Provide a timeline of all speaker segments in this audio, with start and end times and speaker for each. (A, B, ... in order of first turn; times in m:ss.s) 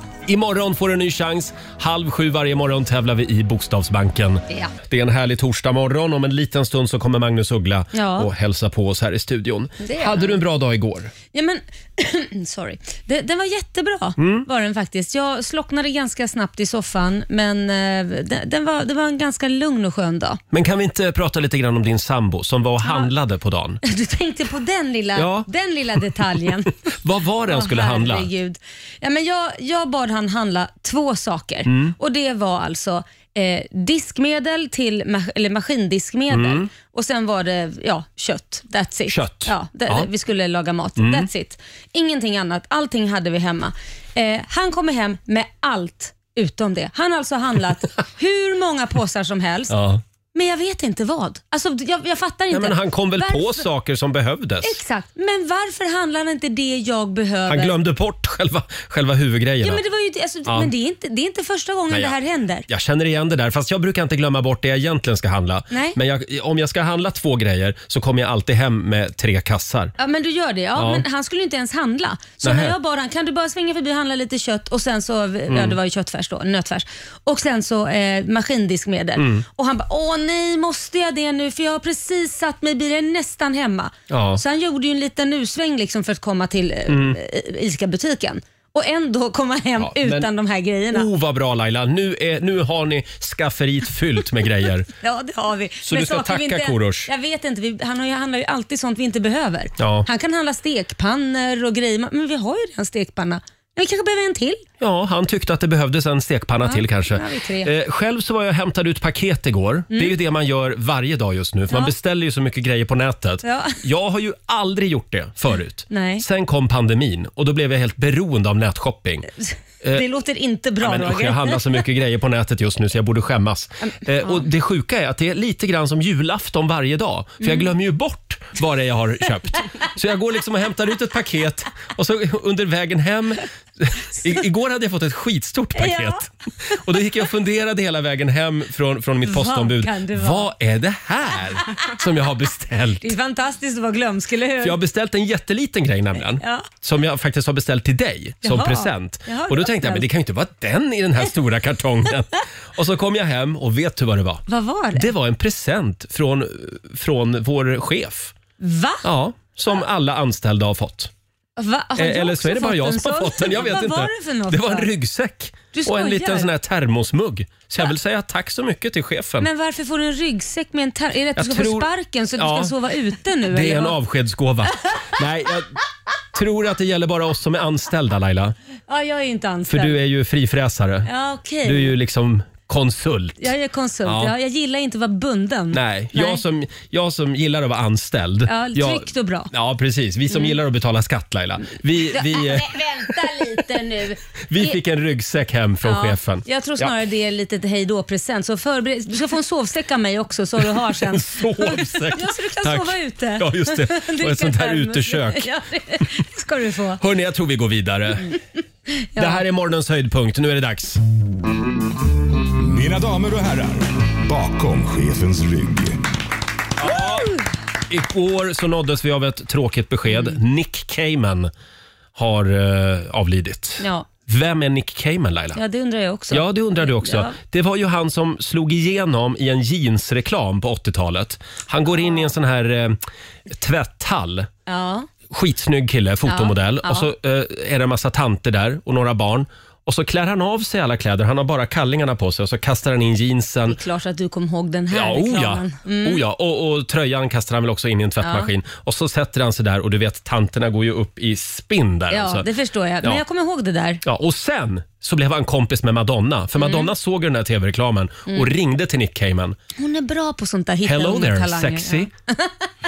0:00.2-0:11.1 A
0:07.9-0:08.3 B
0:09.8-0:10.4 B
0:11.3-0:20.4 B
0:14.2-0:14.5 A
0:20.5-0:23.8 A
0:22.8-0:23.1 B
0:23.8-0:26.7 B
0:25.1-0:25.5 A
0:26.9-0:28.3 A
0:27.5-0:49.8 B
0:31.6-0:31.9 A
0:36.3-0:36.7 A
0:39.1-0:40.1 A
0:41.0-0:41.3 A
0:49.7-0:50.0 A
0:50.3-0:53.6 B
0:52.5-0:54.8 A
0:54.6-0:57.7 B
0:57.5-0:59.8 A
0:59.6-1:02.7 B
1:00.5-1:00.7 A
1:01.9-1:02.1 A
1:02.7-1:09.9 A
1:05.7-1:06.0 B
1:10.0-1:31.1 B
1:10.7-1:11.0 A
1:12.4-1:12.8 A
1:15.5-1:15.8 A
1:19.2-1:19.4 A
1:24.1-1:24.4 A
1:26.9-1:27.2 A
1:29.8-1:30.3 A
1:30.9-1:34.9 A
1:35.0-1:44.6 B
1:35.8-1:37.1 A
1:39.8-1:40.1 A
1:44.8-1:59.3 A
1:46.6-1:47.7 B
1:53.4-1:53.8 B
1:55.9-1:56.2 B
1:59.4-2:01.6 B
2:00.8-2:23.1 A
2:03.9-2:04.4 B
2:07.4-2:07.7 B
2:15.8-2:16.2 B
2:19.2-2:20.5 B
2:23.0-2:24.8 B
2:24.6-2:38.3 A
2:26.4-2:26.7 B
2:28.4-2:30.0 B
2:34.5-2:35.1 B
2:38.6-2:39.0 B
2:39.0-2:41.1 A
2:41.6-2:44.9 B
2:42.0-2:49.5 A
2:45.7-2:46.5 B
2:49.4-2:54.0 B
2:51.4-2:52.7 A
2:53.5-2:55.7 A
2:56.3-2:58.5 A
2:58.9-3:00.0 B
2:59.7-3:01.1 A
3:01.0-3:01.9 B
3:01.6-3:03.5 A
3:03.4-3:06.4 B
3:04.0-3:04.3 A
3:05.7-3:13.6 A
3:08.5-3:09.5 B
3:10.3-3:10.6 B
3:12.1-3:14.8 B
3:14.5-3:16.9 A
3:15.8-3:27.0 B
3:20.6-3:25.5 A
3:27.0-3:28.3 A
3:29.0-3:29.4 B
3:29.2-3:31.0 A
3:32.6-3:36.0 C
3:36.8-3:41.5 A
3:37.0-3:37.3 B
3:42.2-3:45.6 A
3:43.8-3:44.0 B
3:45.5-3:47.3 B
3:46.3-3:54.5 A
3:54.7-3:55.1 B
3:55.3-4:03.8 A
3:56.3-3:57.1 B
4:03.7-4:06.2 B
4:04.9-4:12.5 A
4:08.2-4:08.5 B
4:12.1-4:14.0 B
4:14.0-4:19.6 A
4:16.6-4:16.9 B
4:19.8-4:22.6 B
4:20.8-4:22.1 A